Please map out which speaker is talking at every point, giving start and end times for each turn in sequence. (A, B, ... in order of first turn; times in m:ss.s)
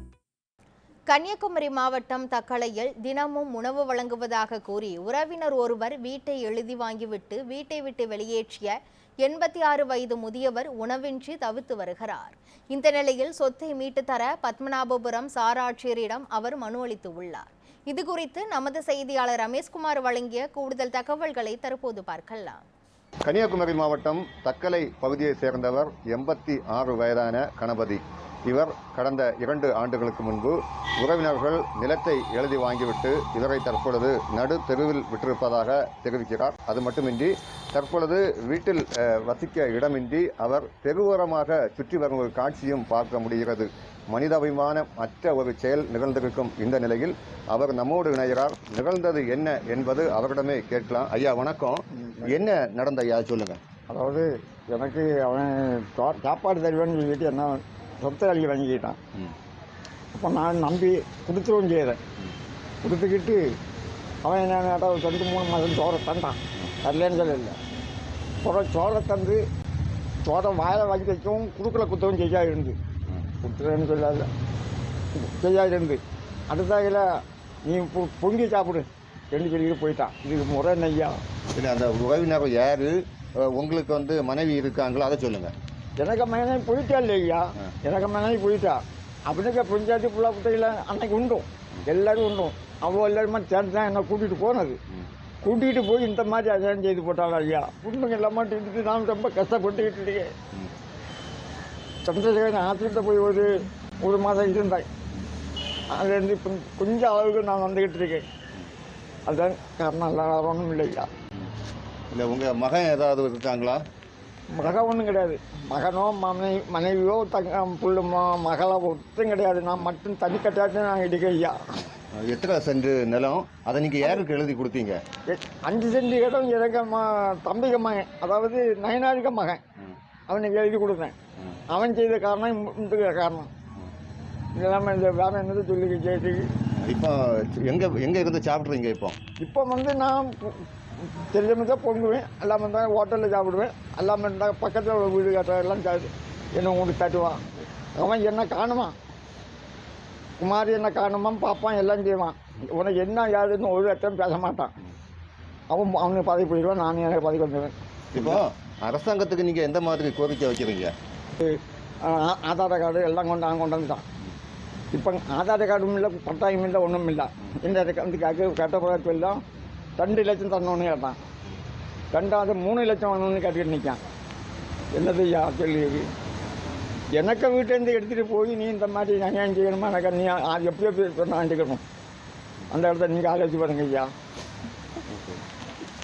0:01.1-0:08.7 A
0:09.2-0:22.6 A
0:23.3-0:53.6 B
0:52.0-0:52.3 C
0:53.9-0:59.0 C
1:00.1-1:02.0 C
1:02.8-1:03.5 C
1:04.2-1:07.6 C
1:08.4-1:09.4 C
1:10.2-1:12.8 C
1:13.4-1:14.3 C
1:15.1-1:21.2 C
1:21.6-1:25.5 B
1:26.0-1:34.8 C
1:35.4-1:40.3 C
1:42.0-1:43.5 C
1:44.0-1:44.9 C
1:45.9-1:48.2 C
1:49.3-1:51.1 C
1:52.1-1:53.8 B
1:54.5-2:01.6 C
2:02.2-2:05.0 B
2:05.3-2:09.6 C
2:10.3-2:11.2 C
2:11.7-2:13.5 C
2:14.6-2:16.5 C
2:16.8-2:19.2 B
2:19.4-2:27.4 C
2:28.0-2:29.0 C
2:30.4-2:34.7 C
2:35.7-2:38.4 C
2:38.1-2:40.9 B
2:41.4-2:44.0 C
2:44.9-2:49.4 C
2:50.0-2:51.2 C
2:52.1-2:54.0 C
2:54.9-2:56.1 C
2:57.2-3:01.8 C
3:02.7-3:04.1 C
3:05.1-3:05.4 B